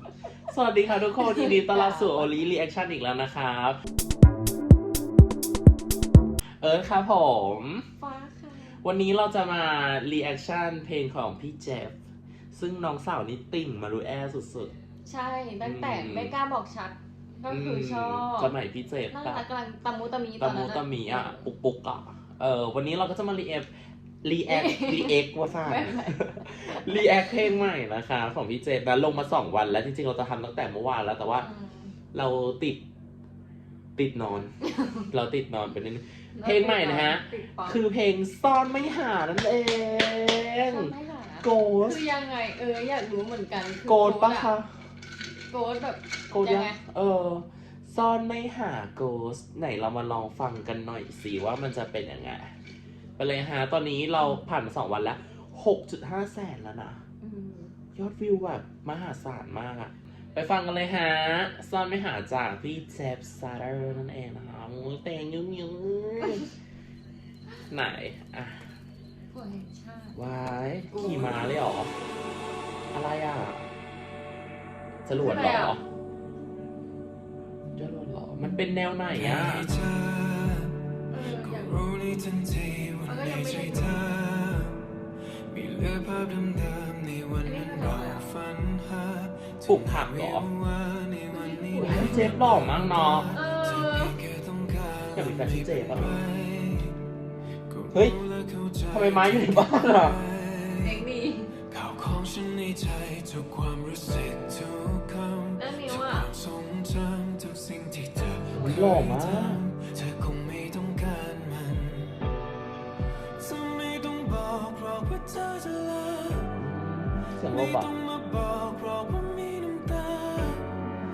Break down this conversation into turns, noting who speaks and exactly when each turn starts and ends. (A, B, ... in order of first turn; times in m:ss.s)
0:00.4-0:03.8 A
0:01.2-0:02.3 B
0:06.6-0:07.8 A
0:08.0-0:08.8 B
0:08.8-0:12.0 A
0:12.5-0:14.7 A
0:15.0-0:18.5 B
0:15.6-0:16.3 A
0:17.5-0:19.4 A
0:19.1-0:21.4 B
0:20.4-0:23.7 A
0:24.2-0:31.5 A
0:24.5-0:27.6 B
0:31.3-0:31.9 B
0:32.1-0:32.8 A
0:34.0-0:34.5 A
0:34.6-0:35.0 B
0:35.1-0:40.9 A
0:36.4-0:37.8 B
0:40.6-0:44.5 B
0:41.4-0:42.0 A
0:43.8-0:44.7 A
0:45.5-0:46.8 B
0:46.3-0:52.5 A
0:53.2-0:57.0 A
0:57.2-0:57.7 B
0:57.9-1:06.5 A
1:07.7-1:08.7 A
1:09.3-1:10.2 B
1:10.1-1:11.9 A
1:10.9-1:11.5 B
1:12.9-1:13.7 A
1:15.0-1:15.8 A
1:15.2-1:15.8 B
1:17.8-1:19.7 A
1:19.1-1:24.8 C
1:21.1-1:21.9 B
1:23.0-1:24.1 B
1:25.5-1:37.0 C
1:27.4-1:28.3 B
1:29.7-1:30.5 A
1:31.3-1:32.4 B
1:31.8-1:33.3 A
1:33.3-1:34.2 B
1:35.1-1:36.2 A
1:37.7-1:41.0 C
1:38.9-1:40.2 A
1:40.8-1:41.5 B
1:41.7-1:52.2 C
1:45.6-1:46.3 B
1:48.5-1:49.6 A
1:53.4-1:56.6 C
1:56.6-1:57.9 A
1:57.5-2:00.8 C